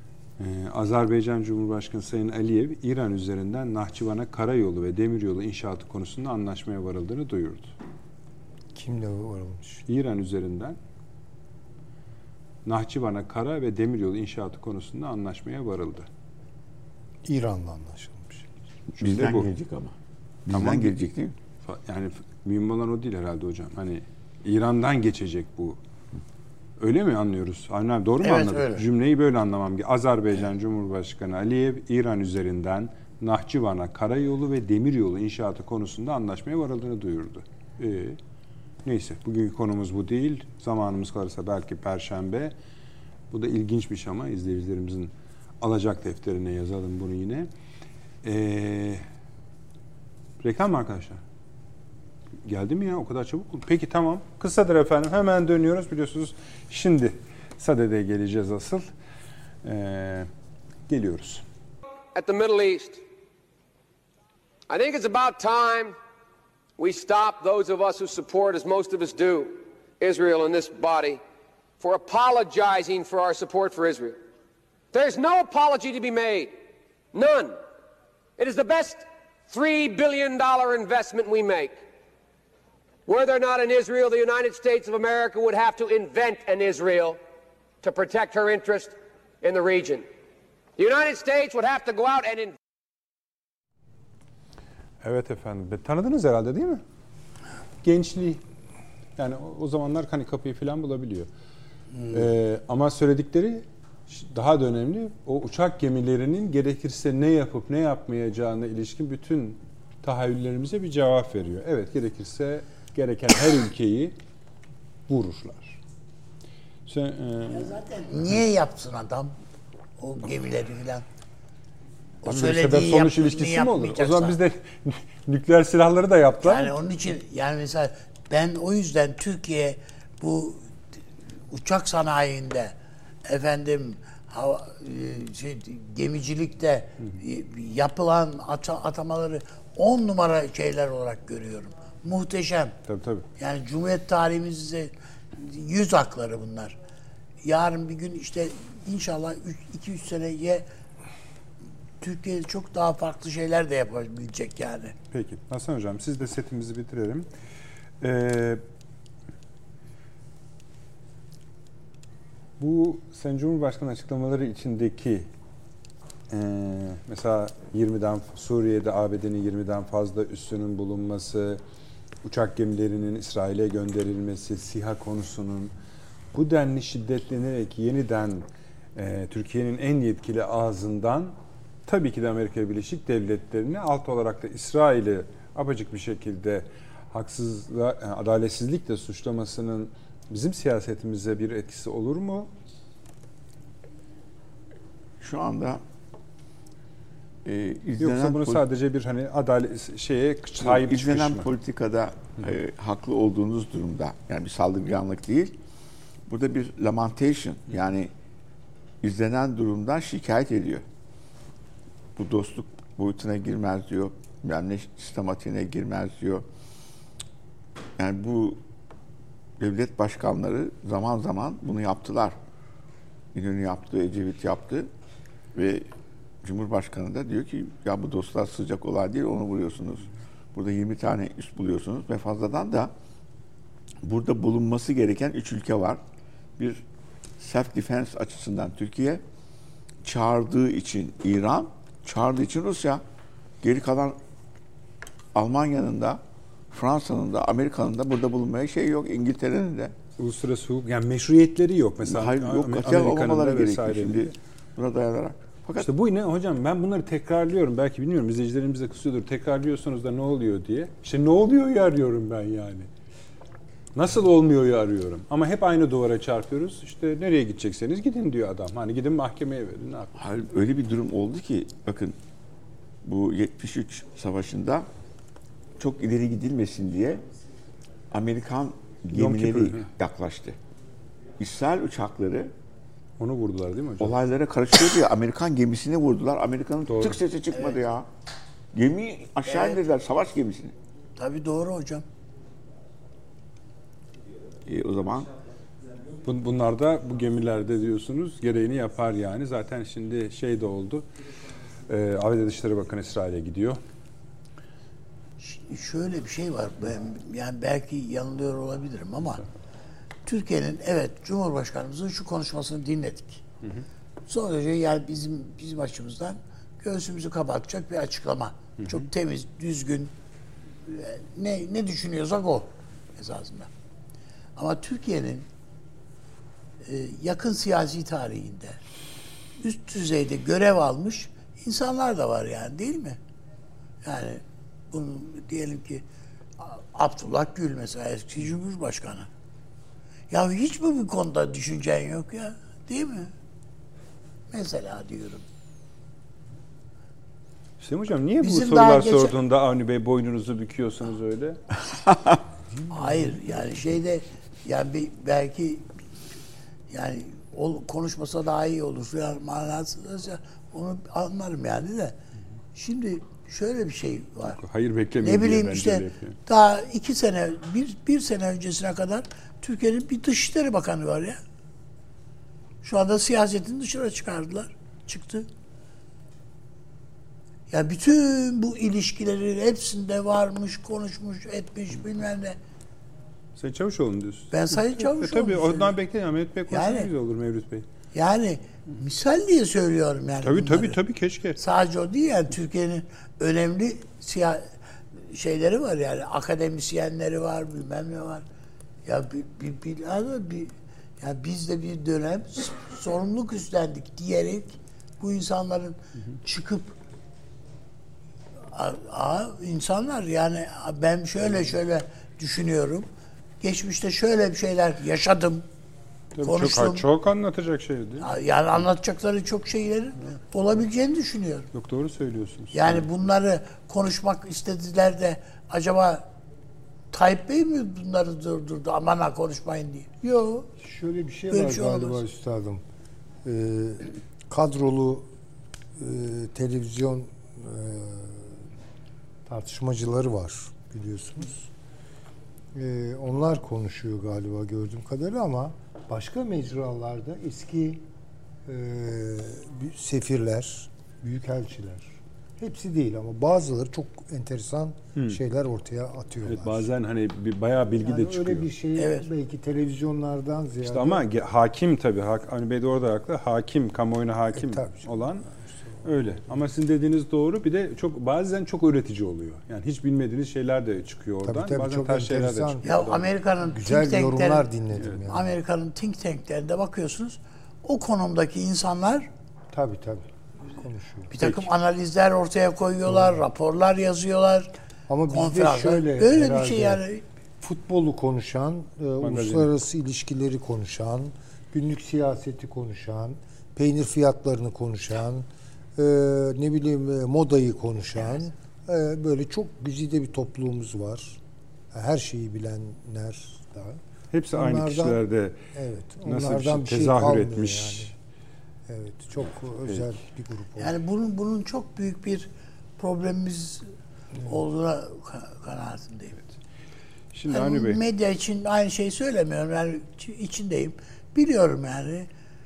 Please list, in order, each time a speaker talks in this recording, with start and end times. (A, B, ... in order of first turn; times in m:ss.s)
0:00.4-0:07.8 A
0:08.8-0:09.8 B
0:09.9-0:10.8 A
0:12.6-0:16.1 A
0:17.2-0:18.4 B
0:18.9-0:19.9 C
0:19.0-0:19.5 A
0:20.4-0:21.4 C
0:20.5-0:21.0 A
0:21.6-0:25.8 A
0:26.8-0:38.2 A
0:28.2-0:28.8 D
0:38.8-0:42.6 A
0:43.3-0:47.5 A
0:48.2-0:49.1 A
0:50.4-0:51.2 A
0:52.4-0:58.9 A
0:59.6-1:00.3 A
1:00.9-1:01.4 A
1:02.2-1:03.0 E
1:04.7-1:06.0 E
1:06.8-1:11.2 E
1:11.8-1:14.2 E
1:14.9-1:16.5 E
1:17.1-1:17.6 E
1:18.4-1:21.8 E
1:23.1-1:27.2 E
1:27.8-1:30.1 E
1:30.8-1:32.6 E
1:35.0-1:36.8 A
1:37.8-1:38.4 A
1:39.2-1:41.3 A
1:42.1-1:54.2 A
1:55.1-1:55.8 A
1:56.9-1:57.8 A
1:57.5-1:59.4 D
2:00.0-2:01.1 D
2:02.2-2:04.4 D
2:02.2-2:06.8 A
2:06.4-2:10.6 D
2:11.5-2:12.8 D
2:13.3-2:22.8 D
2:22.9-2:23.3 A
2:23.4-2:26.8 D
2:27.4-2:30.7 D
2:32.0-2:35.0 D
2:35.1-2:37.3 A
2:38.0-2:38.6 A
2:42.6-2:45.3 A
2:46.3-2:51.6 A
2:52.2-2:55.7 A
2:56.3-3:12.5 A
3:15.2-3:15.8 C
3:17.4-3:18.6 C
3:18.0-3:21.5 A
3:20.6-3:25.6 C
3:26.3-3:28.1 C
3:29.0-3:30.8 C
3:32.2-3:36.4 C
3:38.0-3:38.6 C
3:39.6-3:42.4 C
3:43.3-3:44.9 C
3:45.5-3:45.9 C
3:46.4-3:52.9 C
3:54.0-3:56.0 C
3:56.6-3:56.8 C
3:57.4-3:59.2 C
4:00.0-4:03.0 C
4:03.6-4:04.2 C
4:05.4-4:06.2 C
4:06.7-4:09.9 C
4:10.2-4:14.3 A
4:12.0-4:15.9 C
4:15.8-4:22.9 A
4:24.0-4:30.1 A
4:30.2-4:32.2 C
4:33.0-4:34.9 C
4:35.8-4:37.2 C
4:38.1-4:40.6 C
4:39.1-4:39.9 A
4:41.4-4:42.5 C
4:43.2-4:44.2 A
4:44.0-4:48.1 C
4:46.9-4:47.2 A
4:48.7-4:50.8 C
4:49.5-4:49.8 D
4:51.2-4:52.0 D
4:54.7-4:55.3 C
4:56.2-5:01.1 A
5:01.9-5:03.8 A
5:05.4-5:09.4 D
5:10.3-5:13.4 D
5:14.3-5:20.1 D
5:20.9-5:23.7 D
5:24.6-5:25.5 D
5:26.8-5:28.8 D
5:29.6-5:33.2 D
5:34.0-5:36.0 D
5:36.6-5:39.3 D
5:40.3-5:43.3 D
5:44.5-5:45.4 D
5:47.8-5:51.6 A
5:48.4-5:49.4 D
5:52.7-5:53.8 B
5:52.9-5:55.9 D
5:56.9-6:02.2 D
6:02.8-6:04.6 D
6:04.4-6:06.4 A
6:05.2-6:11.4 D
6:12.8-6:15.5 D
6:17.7-6:22.6 D
6:23.6-6:27.9 A
6:24.5-6:25.9 D
6:26.7-6:27.1 D
6:28.1-6:31.0 D
6:30.4-6:31.6 A
6:31.6-6:34.7 D
6:35.3-6:38.4 D
6:39.0-6:46.9 D
6:48.7-6:53.1 D
6:53.6-6:55.6 D
6:56.3-6:58.3 A
6:56.4-6:57.0 D
6:58.2-7:01.7 D
7:01.7-7:03.1 A
7:02.7-7:06.3 D
7:07.1-7:10.7 D
7:10.8-7:12.8 B
7:11.5-7:12.2 D
7:13.4-7:15.3 B
7:16.0-7:18.5 B
7:19.5-7:21.7 B
7:22.8-7:28.0 B
7:28.7-7:36.9 B
7:35.2-7:35.4 A
7:36.4-7:38.7 A
7:38.0-7:41.2 B
7:39.0-7:39.3 D
7:40.8-7:45.5 A
7:44.6-7:46.1 B
7:46.0-7:53.2 A
7:51.4-7:53.1 B
7:52.8-7:54.7 D
7:53.7-7:55.6 B
7:54.9-7:55.3 A
7:55.3-7:59.3 D
7:59.7-8:01.3 B
8:01.3-8:04.7 D
8:05.1-8:07.0 B
8:05.3-8:07.2 D
8:07.6-8:21.4 B
8:09.2-8:09.7 A
8:21.9-8:24.0 B
8:24.3-8:25.6 A
8:24.5-8:25.2 B
8:25.8-8:28.1 B
8:26.2-8:28.1 A
8:28.9-8:30.9 B
8:29.9-8:30.1 A
8:30.8-8:33.9 D
8:34.4-8:36.4 D
8:37.3-8:38.0 A
8:37.5-8:42.3 D